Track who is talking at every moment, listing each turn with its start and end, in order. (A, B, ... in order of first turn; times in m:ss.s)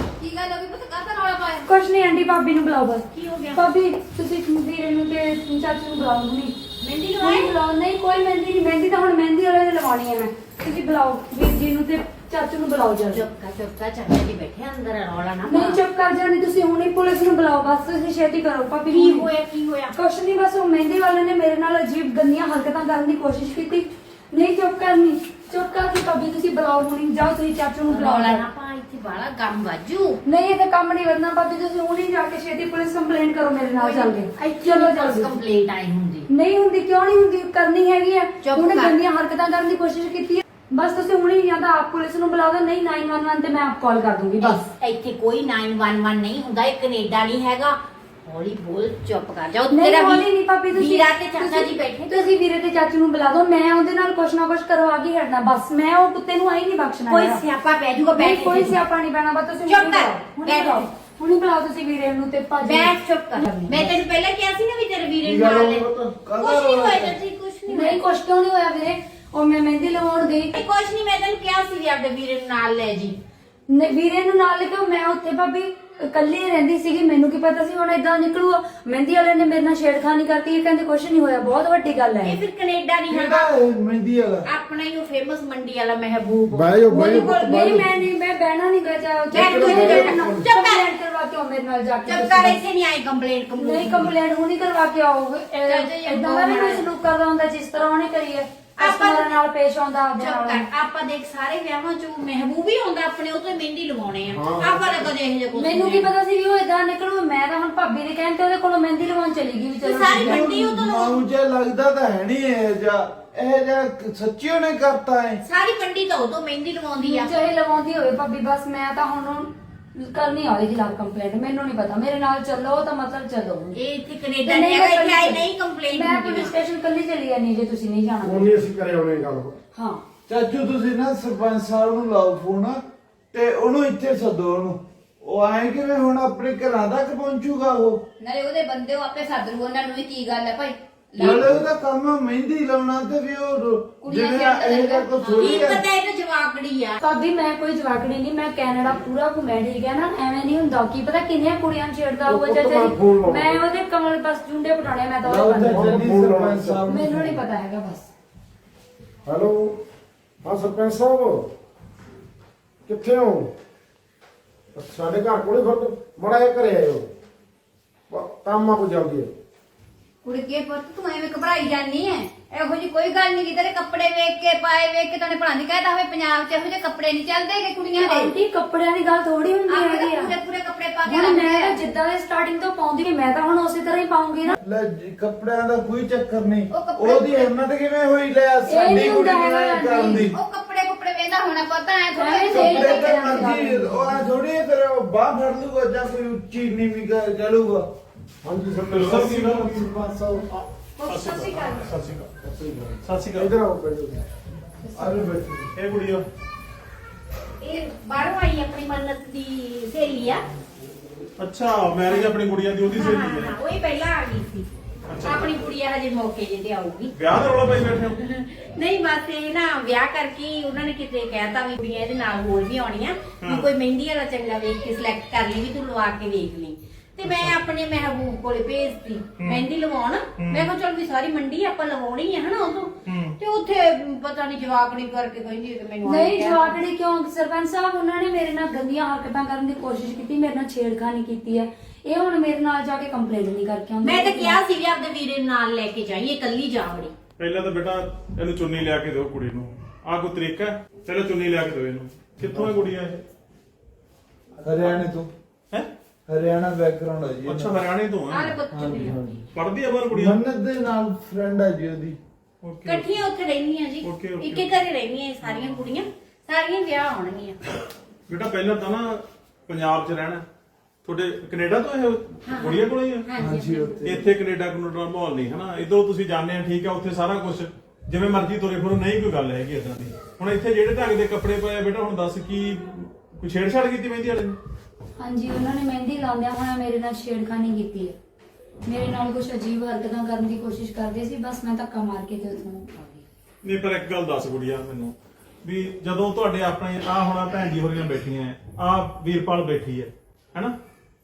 0:00.2-0:01.7 A
0:01.7-0:06.6 B
0:03.1-0:03.6 C
0:06.8-0:07.5 C
0:07.2-0:13.3 B
0:13.1-0:15.8 C
0:15.5-0:19.3 B
0:18.9-0:20.0 C
0:19.9-0:28.4 B
0:27.9-0:30.2 C
0:30.2-0:35.3 B
0:33.8-0:36.3 C
0:36.3-0:44.6 B
0:38.4-0:39.0 C
0:44.4-0:52.2 C
0:49.7-0:57.4 B
0:57.1-0:58.8 C
0:58.2-1:04.0 B
0:59.7-1:00.9 C
1:02.6-1:08.0 C
1:05.2-1:06.1 D
1:06.1-1:07.2 E
1:07.7-1:10.5 B
1:10.5-1:13.2 C
1:13.7-1:22.4 B
1:22.2-1:23.5 C
1:23.1-1:24.5 E
1:24.5-1:26.7 C
1:26.5-1:27.9 D
1:26.9-1:32.6 B
1:29.3-1:30.8 C
1:29.3-1:30.5 D
1:32.1-1:34.1 C
1:33.6-1:40.6 B
1:35.7-1:36.9 C
1:38.8-1:39.4 C
1:40.2-1:46.1 C
1:44.3-1:45.1 D
1:45.6-1:50.4 B
1:49.8-1:51.2 C
1:50.0-1:55.4 E
1:55.4-1:57.5 C
1:57.0-2:03.8 B
2:03.7-2:06.5 C
2:04.4-2:08.6 B
2:08.2-2:09.6 D
2:09.8-2:10.0 B
2:10.3-2:12.8 E
2:13.3-2:18.0 E
2:18.2-2:21.6 A
2:21.2-2:25.8 E
2:24.0-2:25.6 A
2:25.2-2:27.0 C
2:27.0-2:36.0 B
2:32.3-2:33.6 D
2:35.2-2:37.4 E
2:35.7-2:36.8 D
2:36.9-2:38.1 B
2:39.3-2:39.8 D
2:40.4-2:41.5 D
2:42.9-2:43.5 D
2:44.8-2:47.1 D
2:48.1-2:49.3 D
2:50.2-2:58.3 A
2:58.0-3:00.3 B
2:59.9-3:01.7 A
3:01.1-3:04.6 B
3:04.6-3:10.4 E
3:06.7-3:07.5 A
3:08.7-3:10.2 B
3:10.3-3:13.5 A
3:12.1-3:14.2 B
3:12.5-3:17.9 E
3:18.4-3:20.4 D
3:18.9-3:19.8 F
3:18.9-3:20.4 E
3:20.5-3:22.3 F
3:21.1-3:21.5 A
3:22.4-3:24.2 D
3:23.0-3:23.5 F
3:25.0-3:25.7 E
3:25.8-3:26.2 F
3:27.6-3:30.4 C
3:31.4-3:33.5 F
3:32.1-3:32.3 C
3:32.9-3:34.7 C
3:35.1-3:35.6 F
3:35.2-3:37.1 C
3:37.2-3:38.2 F
3:38.2-3:56.8 C
3:43.4-3:43.7 F
3:47.3-3:47.6 F
3:49.4-3:49.7 F
3:50.4-3:50.7 F
3:53.1-3:53.4 F
3:56.0-4:04.6 B
4:04.0-4:07.1 C
4:07.4-4:13.2 F
4:12.4-4:12.8 E
4:14.6-4:15.3 E
4:16.3-4:17.8 E
4:17.4-4:18.6 F
4:18.3-4:19.2 C
4:18.7-4:19.4 E
4:19.6-4:20.4 F
4:20.1-4:22.2 E
4:22.6-4:23.1 F
4:22.8-4:27.6 C
4:24.0-4:24.7 F
4:28.3-4:30.4 F
4:31.0-4:33.3 F
4:32.5-4:34.1 C
4:33.4-4:34.3 E
4:34.0-4:44.6 F
4:45.2-4:48.2 B
4:48.8-4:53.2 B
4:53.6-5:00.8 F